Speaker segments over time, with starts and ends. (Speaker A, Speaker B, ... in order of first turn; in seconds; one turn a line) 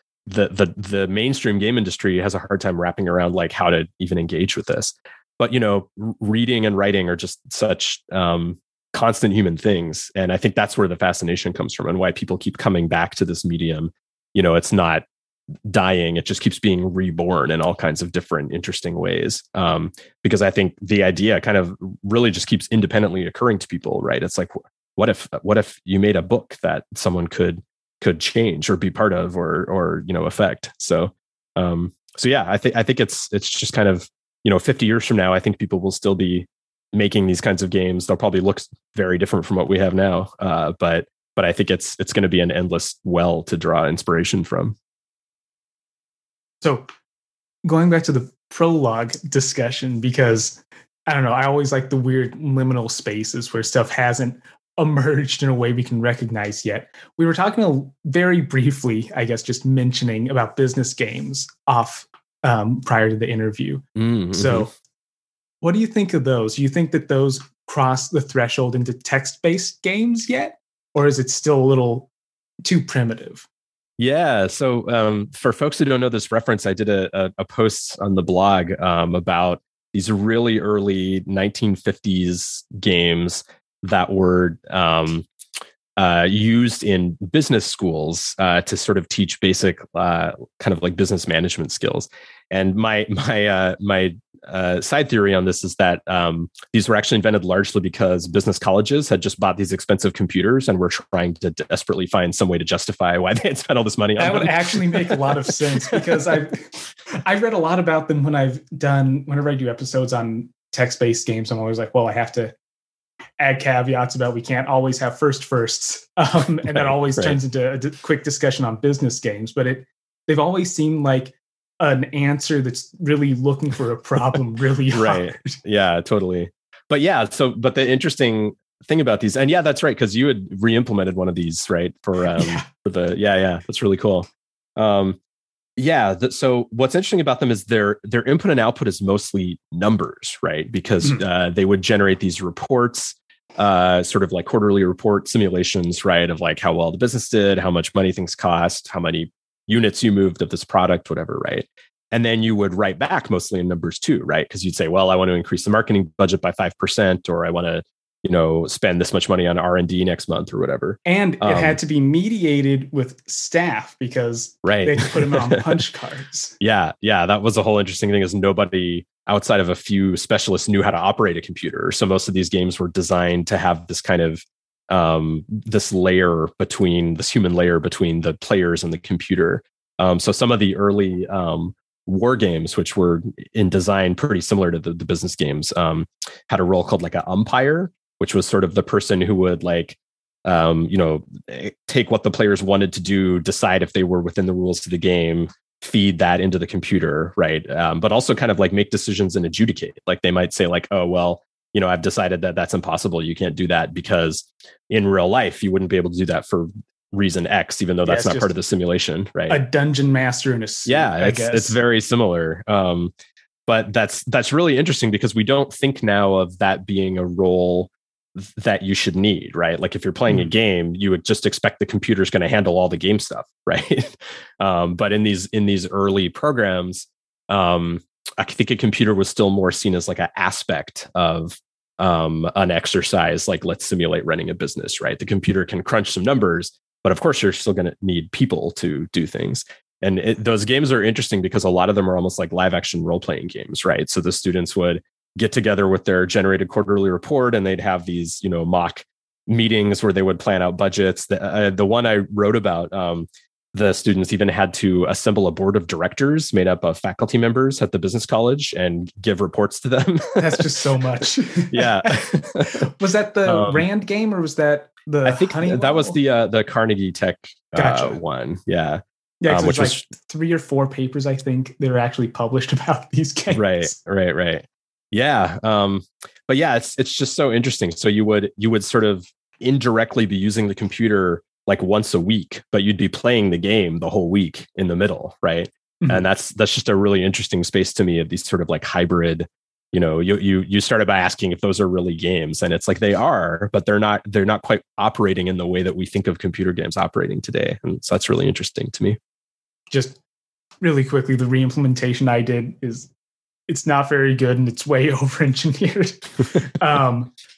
Speaker A: 0.2-15.1
Speaker A: 15.7-44.8
Speaker B: 46.6-46.9
Speaker B: 47.6-64.7
Speaker A: 64.0-64.7
Speaker B: 65.6-72.1
Speaker B: 72.6-73.5
Speaker A: 74.0-85.2
Speaker A: 86.0-106.0
Speaker B: 104.2-112.5
Speaker B: 113.4-125.5
Speaker A: 116.8-117.4
Speaker A: 124.9-135.2
Speaker B: 132.3-132.7
Speaker A: 135.8-161.8
Speaker B: 161.0-166.5
Speaker A: 164.6-165.6
Speaker A: 166.6-209.6
Speaker B: 208.0-208.5
Speaker B: 209.5-211.8
Speaker A: 210.8-213.1
Speaker A: 213.7-260.7
Speaker B: 260.4-266.2
Speaker A: 261.7-262.9
Speaker A: 263.4-263.8
Speaker A: 265.2-270.0
Speaker B: 267.8-268.2
Speaker B: 269.4-273.9
Speaker A: 273.5-299.2
Speaker B: 299.9-300.2
Speaker B: 300.8-303.1
Speaker B: 303.7-307.3